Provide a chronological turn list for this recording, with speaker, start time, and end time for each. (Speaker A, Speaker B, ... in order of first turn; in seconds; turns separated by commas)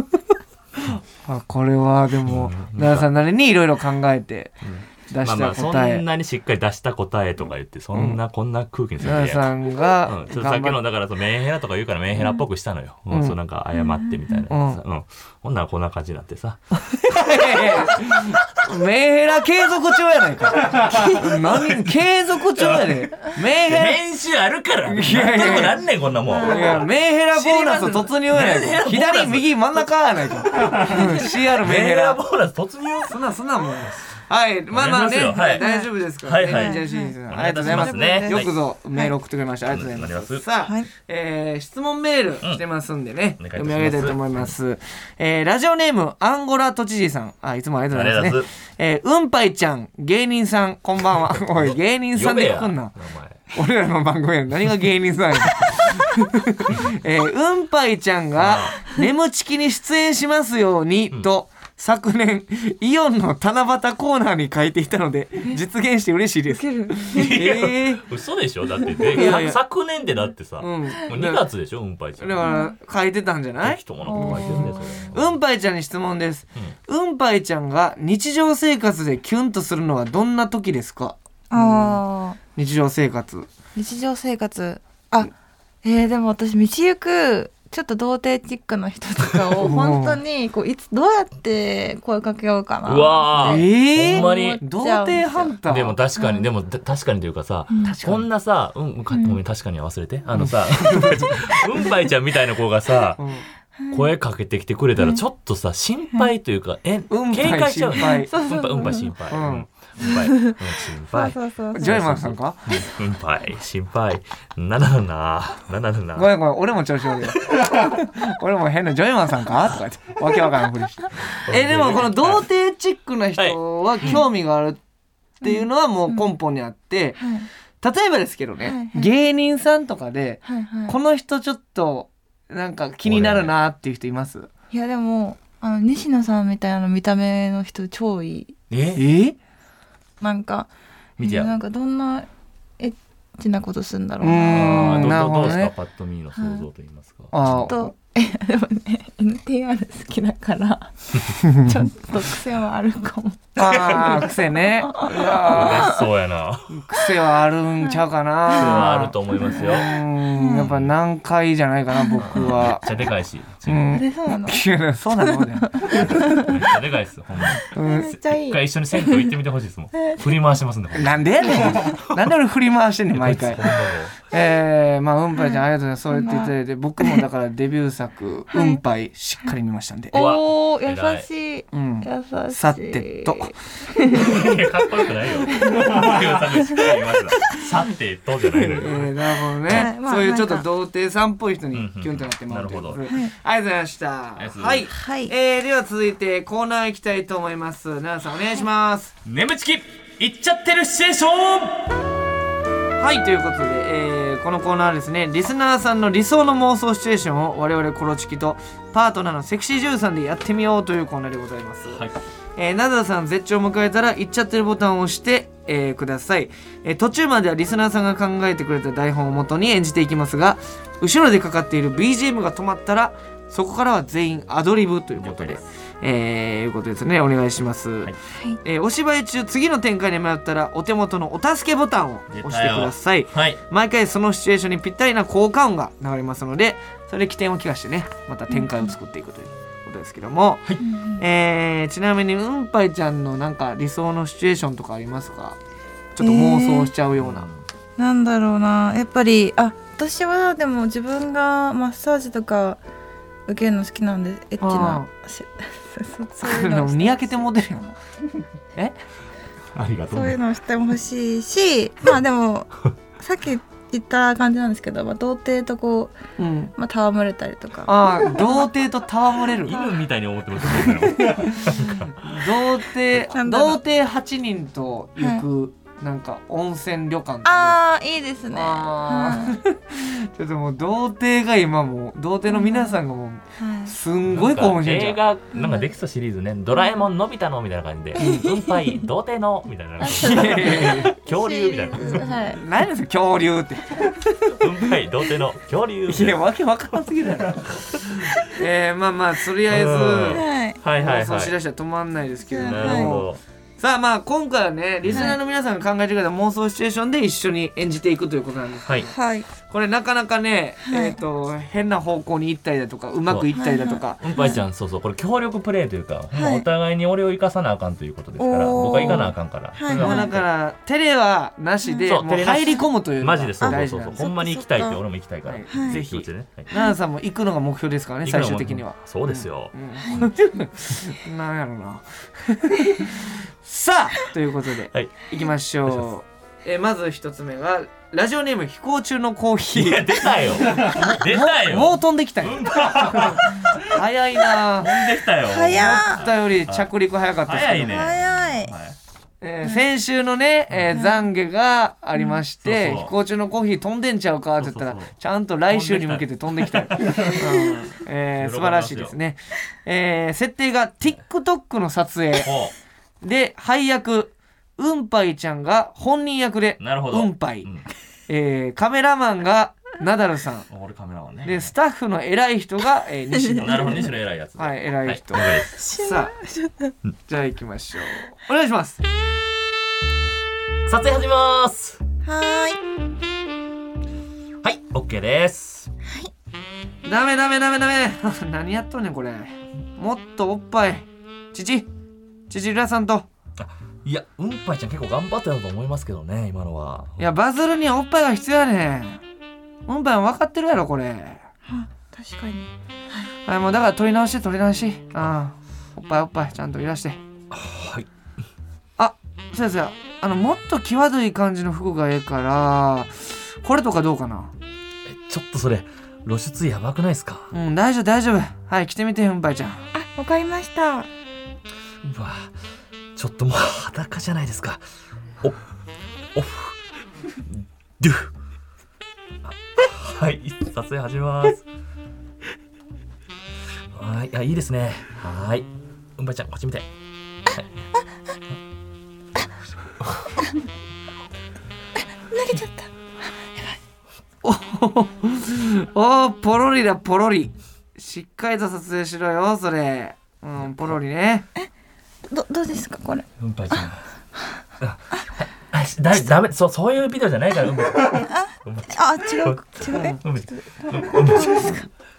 Speaker A: 0.9-4.6, Speaker B: 2.2-3.1, Speaker B: 4.6-9.5, Speaker A: 5.1-6.0, Speaker A: 7.9-8.2, Speaker A: 9.0-10.8, Speaker B: 10.0-18.6, Speaker A: 13.1-13.3, Speaker C: 13.8-14.2, Speaker A: 14.5-14.8, Speaker A: 17.0-24.0, Speaker B: 20.7-22.0, Speaker B: 22.5-23.0, Speaker B: 23.6-29.8, Speaker A: 24.8-25.8, Speaker C: 26.2-26.8, Speaker A: 26.4-32.2, Speaker B: 30.5-33.2, Speaker A: 33.0-53.0, Speaker B: 34.7-35.7, Speaker C: 35.3-35.9, Speaker B: 36.2-38.5, Speaker C: 36.4-37.1, Speaker C: 37.6-39.1, Speaker B: 39.7-40.4, Speaker B: 43.4-44.5, Speaker B: 47.9-48.5, Speaker B: 51.2-53.4, Speaker A: 53.5-68.0, Speaker B: 58.4-58.8, Speaker C: 66.5-67.3, Speaker B: 67.1-72.5, Speaker A: 69.1-69.6, Speaker A: 70.6-71.5, Speaker A: 72.2-82.0, Speaker C: 72.4-72.7, Speaker B: 73.6-75.3, Speaker C: 74.1-75.0, Speaker C: 81.5-82.4, Speaker A: 82.5-83.5, Speaker C: 83.7-85.3, Speaker C: 85.8-95.5, Speaker A: 89.6-90.2, Speaker B: 92.8-94.6, Speaker A: 93.4-95.9, Speaker B: 95.7-103.2, Speaker C: 96.2-96.5, Speaker C: 97.7-98.0, Speaker A: 97.8-98.2, Speaker C: 99.1-99.4, Speaker A: 100.3-101.5, Speaker A: 103.2-103.4, Speaker C: 103.8-104.1, Speaker B: 103.9-116.3, Speaker A: 107.1-108.3, Speaker C: 108.0-109.1, Speaker A: 109.3-109.7, Speaker C: 110.0-110.6, Speaker C: 111.1-112.0, Speaker A: 111.7-112.8, Speaker A: 116.2-124.8, Speaker B: 121.5-122.4, Speaker B: 123.4-124.2, Speaker A: 125.4-127.2, Speaker C: 125.4-126.2, Speaker C: 127.2-127.5, Speaker A: 127.8-134.5, Speaker C: 128.6-129.1, Speaker C: 130.4-130.9, Speaker B: 133.0-133.5, Speaker C: 134.7-138.6, Speaker B: 138.7-139.0, Speaker A: 138.9-139.3, Speaker C: 140.2-142.3, Speaker B: 141.2-141.5, Speaker C: 142.8-145.5, Speaker A: 144.2-145.7, Speaker B: 144.5-147.7, Speaker C: 146.3-146.7, Speaker A: 147.3-147.9, Speaker C: 147.7-156.0, Speaker A: 151.4-151.8, Speaker A: 153.6-155.9, Speaker B: 153.7-154.1, Speaker B: 155.4-156.7, Speaker A: 156.7-162.8, Speaker C: 158.5-160.7, Speaker B: 158.5-159.9, Speaker B: 160.6-160.9, Speaker C: 161.9-162.3, Speaker B: 162.2-163.9, Speaker A: 163.7-166.2, Speaker C: 163.9-164.6, Speaker C: 165.2-166.6, Speaker B: 166.0-172.0, Speaker C: 167.7-169.3, Speaker A: 167.7-168.1, Speaker C: 169.9-170.3, Speaker A: 170.9-173.7, Speaker C: 171.6-171.9, Speaker B: 173.1-174.1, Speaker A: 174.2-180.2, Speaker C: 175.4-177.2, Speaker C: 178.5-178.8, Speaker B: 180.1-181.3, Speaker C: 180.1-184.5, Speaker A: 181.7-183.5, Speaker B: 184.1-189.1, Speaker C: 185.5-186.1, Speaker A: 188.5-199.1, Speaker C: 189.7-190.7, Speaker B: 191.7-193.0, Speaker C: 193.1-193.3, Speaker B: 194.4-194.9, Speaker C: 194.9-195.3, Speaker B: 199.2-201.9, Speaker A: 203.0-212.0, Speaker B: 211.9-212.2, Speaker A: 212.6-228.1, Speaker B: 225.2-225.6, Speaker A: 228.6-240.6, Speaker B: 232.3-233.6, Speaker C: 238.5-238.8, Speaker C: 240.8-241.2, Speaker A: 241.2-245.6, Speaker A: 246.1-247.5, Speaker C: 246.2-246.9, Speaker B: 247.2-247.6, Speaker C: 248.0-252.8, Speaker C: 253.5-257.5, Speaker A: 254.6-255.1, Speaker A: 256.4-257.9, Speaker B: 259.7-260.4, Speaker C: 260.1-266.1, Speaker A: 266.4-266.7, Speaker C: 266.8-268.7, Speaker A: 267.9-269.8, Speaker B: 269.6-272.1, Speaker C: 269.7-269.9, Speaker A: 271.2-277.8, Speaker C: 273.3-273.8, Speaker C: 277.4-279.6, Speaker A: 278.5-285.2, Speaker C: 282.5-283.0, Speaker C: 283.6-283.9, Speaker B: 284.3-292.4, Speaker C: 285.5-285.9, Speaker C: 288.2-289.0, Speaker C: 290.0-292.6, Speaker A: 290.1-291.1, Speaker A: 292.1-294.6, Speaker B: 294.6-296.4, Speaker A: 296.1-300.4, Speaker B: 299.7-301.5, Speaker C: 300.3-300.8, Speaker A: 301.0-309.1, Speaker C: 302.4-303.2, Speaker B: 302.6-303.4, Speaker B: 305.0-305.4, Speaker C: 309.1-309.5, Speaker A: 309.7-314.2, Speaker C: 310.9-311.2, Speaker C: 313.5-314.6, Speaker B: 314.2-320.4, Speaker C: 316.3-316.7, Speaker C: 318.4-320.3, Speaker A: 319.9-324.2, Speaker C: 321.9-322.1, Speaker B: 322.1-326.7, Speaker C: 323.6-325.0, Speaker A: 325.4-344.9, Speaker C: 325.7-326.0, Speaker C: 326.7-327.0, Speaker B: 328.2-330.3, Speaker B: 339.7-344.0, Speaker B: 344.5-346.9, Speaker C: 345.5-346.2, Speaker A: 345.7-348.0, Speaker B: 347.4-349.0, Speaker C: 347.9-348.7, Speaker A: 349.4-362.5, Speaker B: 352.6-353.1, Speaker B: 354.6-355.1, Speaker B: 355.7-359.1, Speaker B: 362.4-362.7, Speaker A: 363.2-367.7, Speaker B: 366.8-367.9, Speaker A: 368.3-370.7, Speaker B: 370.7-371.7, Speaker A: 371.4-376.3, Speaker B: 373.5-375.7, Speaker C: 375.8-376.9, Speaker A: 377.3-379.0, Speaker B: 380.9-382.0, Speaker C: 382.2-382.8, Speaker B: 384.6-385.9, Speaker C: 386.0-386.3, Speaker A: 387.0-391.9, Speaker A: 392.5-393.3, Speaker B: 393.6-397.2, Speaker A: 397.2-399.2, Speaker A: 399.9-401.4, Speaker C: 401.7-403.3, Speaker A: 403.4-407.2, Speaker B: 407.5-408.1, Speaker A: 409.0-414.5, Speaker B: 415.1-417.5, Speaker A: 417.5-419.9, Speaker C: 419.9-421.1, Speaker B: 422.0-422.5, Speaker B: 423.1-424.8, Speaker B: 426.3-426.8, Speaker B: 427.4-428.3, Speaker B: 429.4-431.6, Speaker B: 433.9-436.9, Speaker C: 442.3-442.9, Speaker A: 444.4-451.4, Speaker C: 452.3-453.9, Speaker B: 453.4-454.0, Speaker B: 454.8-461.8, Speaker C: 458.3-461.9, Speaker A: 459.9-460.2